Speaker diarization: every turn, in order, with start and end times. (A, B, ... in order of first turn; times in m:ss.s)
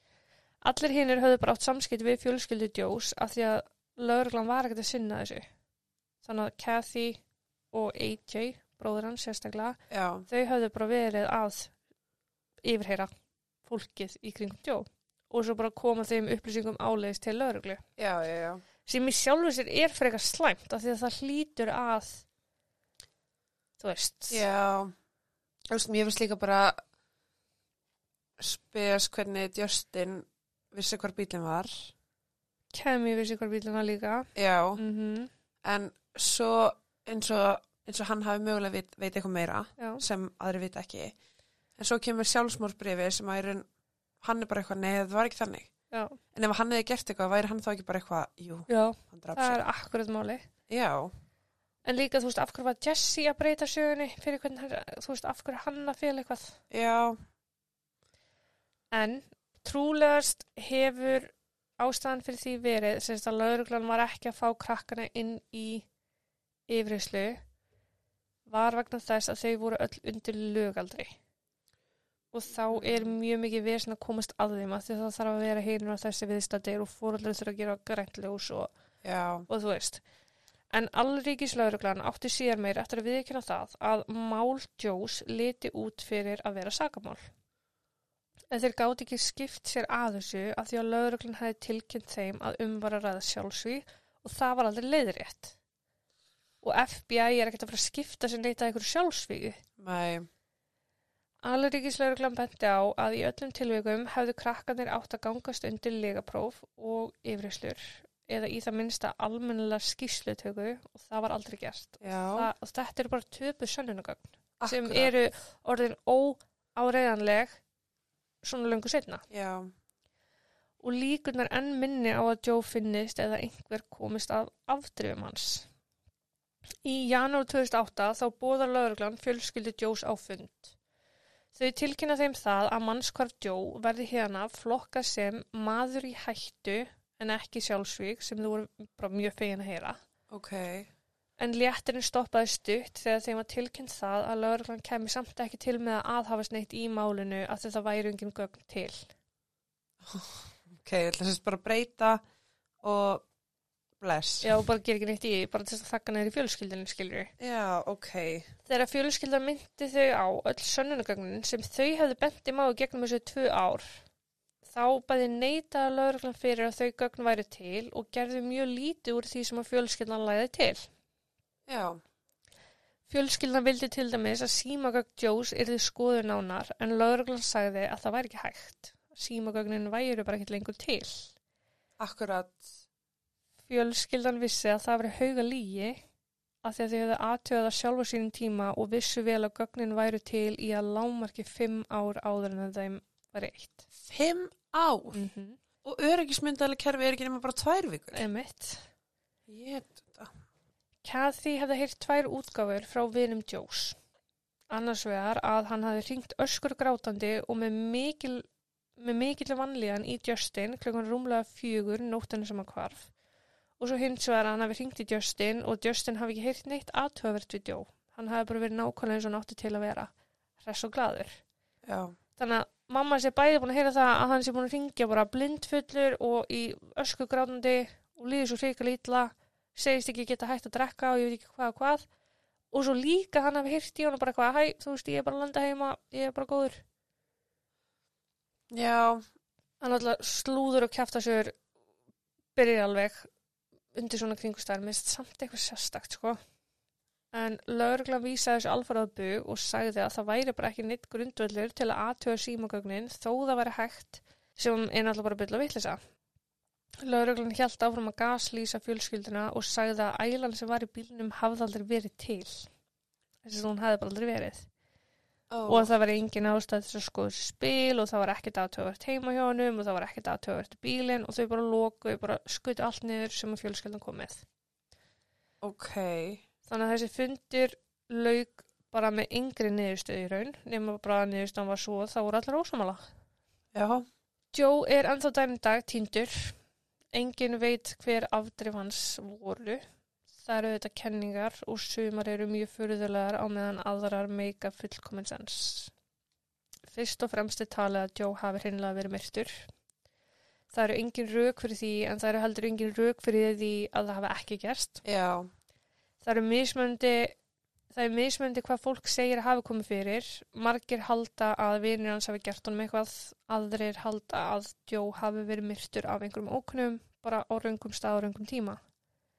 0:00.6-0:05.5 A
0:06.2-0:07.2 A
0:07.7-0:11.7 A
0:09.9-0:10.3 B
0:12.6-0:13.1 A
0:13.6-0:17.8 A
0:18.0-0:18.6 B
0:18.9-0:22.2 A
0:23.8-0:24.4 A
0:24.3-0:24.9 B
0:25.7-0:26.8 B
0:28.4-0:31.9 B
0:32.7-0:35.3 A
0:34.4-0:34.8 B
0:35.6-0:41.2 B
0:39.8-0:40.0 A
0:41.8-0:43.6 B
0:44.2-0:45.7 B
0:45.9-0:46.2 A
0:46.3-0:49.6 B
0:48.7-0:50.5 A
0:50.7-0:51.1 B
0:51.8-0:56.6 A
0:56.7-0:57.2 B
0:58.9-1:05.9 A
1:06.7-1:07.4 A
1:08.5-1:11.2 A
1:12.3-1:18.7 A
1:12.7-1:13.2 B
1:19.0-1:19.5 B
1:19.5-1:20.0 A
1:20.7-1:27.2 A
1:28.5-1:35.6 A
1:36.6-1:39.6 A
1:39.8-1:40.3 B
1:41.4-1:57.6 A
1:52.0-1:52.5 B
1:54.6-1:55.1 B
1:58.4-1:59.2 A
1:59.3-1:59.7 B
2:00.8-2:05.7 A
2:06.8-2:10.8 A
2:11.6-2:20.0 A
2:20.3-2:20.9 B
2:21.4-2:29.1 A
2:30.0-2:32.2 B
2:32.8-2:33.2 B
2:34.0-2:34.6 B
2:34.4-2:37.3 A
2:37.4-2:38.5 B
2:38.7-2:44.0 A
2:44.7-2:50.9 A
2:51.7-2:52.0 B
2:53.1-3:01.3 A
3:02.0-3:02.7 B
3:03.7-3:06.0 A
3:06.6-3:13.9 A
3:14.0-3:15.2 B
3:15.1-3:15.6 A
3:15.8-3:18.2 B
3:18.1-3:18.8 A
3:19.5-3:20.3 B
3:21.0-3:24.0 A
3:24.7-3:28.5 A
3:29.0-3:33.1 A
3:33.8-3:41.4 A
3:41.8-3:42.1 B
3:42.4-3:52.1 A
3:52.7-3:56.8 A
3:58.7-3:59.2 B
3:59.8-4:01.6 A
4:02.6-4:03.3 A
4:03.9-4:06.4 A
4:07.3-4:16.0 A
4:17.0-4:22.7 A
4:23.4-4:24.7 A
4:25.5-4:25.9 B
4:25.7-4:34.4 A
4:35.6-4:36.4 B
4:36.7-4:43.0 A
4:43.7-4:44.0 B
4:44.5-4:46.6 A
4:47.1-4:49.8 A
4:50.4-4:55.9 A
4:56.9-4:59.7 A
5:00.7-5:05.0 A
5:05.0-5:05.5 B
5:06.2-5:07.4 A
5:07.9-5:18.8 A